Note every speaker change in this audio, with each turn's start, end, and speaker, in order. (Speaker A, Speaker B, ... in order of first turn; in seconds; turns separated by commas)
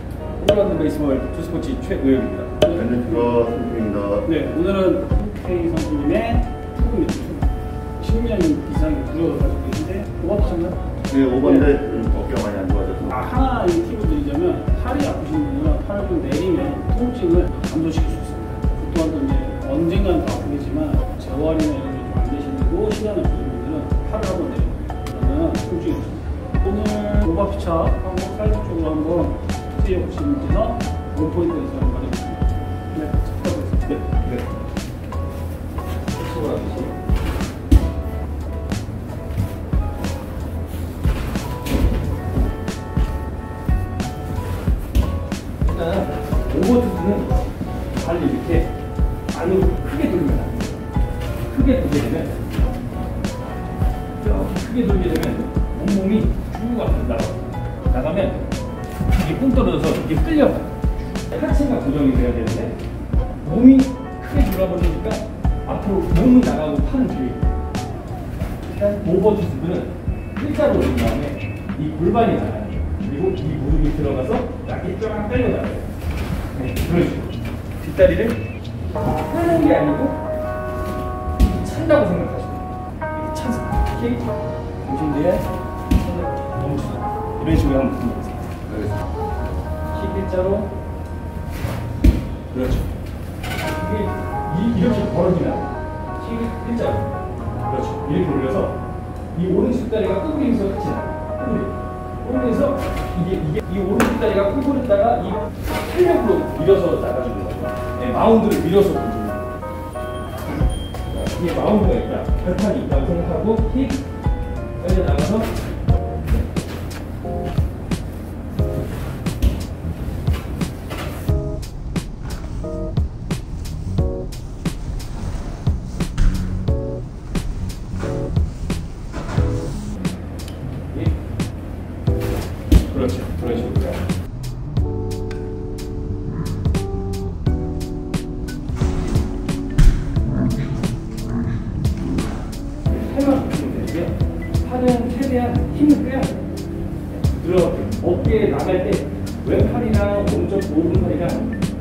Speaker A: 0.4-2.6, Speaker B: 2.6-3.4, Speaker C: 2.7-4.2, Speaker B: 4.2-10.8, Speaker C: 11.1-13.2, Speaker B: 11.4-11.7, Speaker B: 13.0-33.9, Speaker A: 33.9-34.5, Speaker A: 36.1-37.0, Speaker A: 45.6-48.7, Speaker A: 49.3-50.7, Speaker A: 51.5-52.4, Speaker A: 54.2-58.4, Speaker A: 59.1-62.8, Speaker A: 63.4-67.4, Speaker A: 68.7-75.8, Speaker A: 76.5-78.4, Speaker A: 79.2-80.2, Speaker A: 81.4-84.3, Speaker A: 84.8-85.5, Speaker A: 86.0-88.9, Speaker A: 89.9-90.7, Speaker A: 92.5-92.9, Speaker A: 93.7-97.1, Speaker A: 97.6-98.8, Speaker A: 99.3-109.5, Speaker A: 111.1-114.0, Speaker A: 114.8-115.5, Speaker A: 132.9-134.0, Speaker A: 142.9-146.4, Speaker A: 147.1-151.5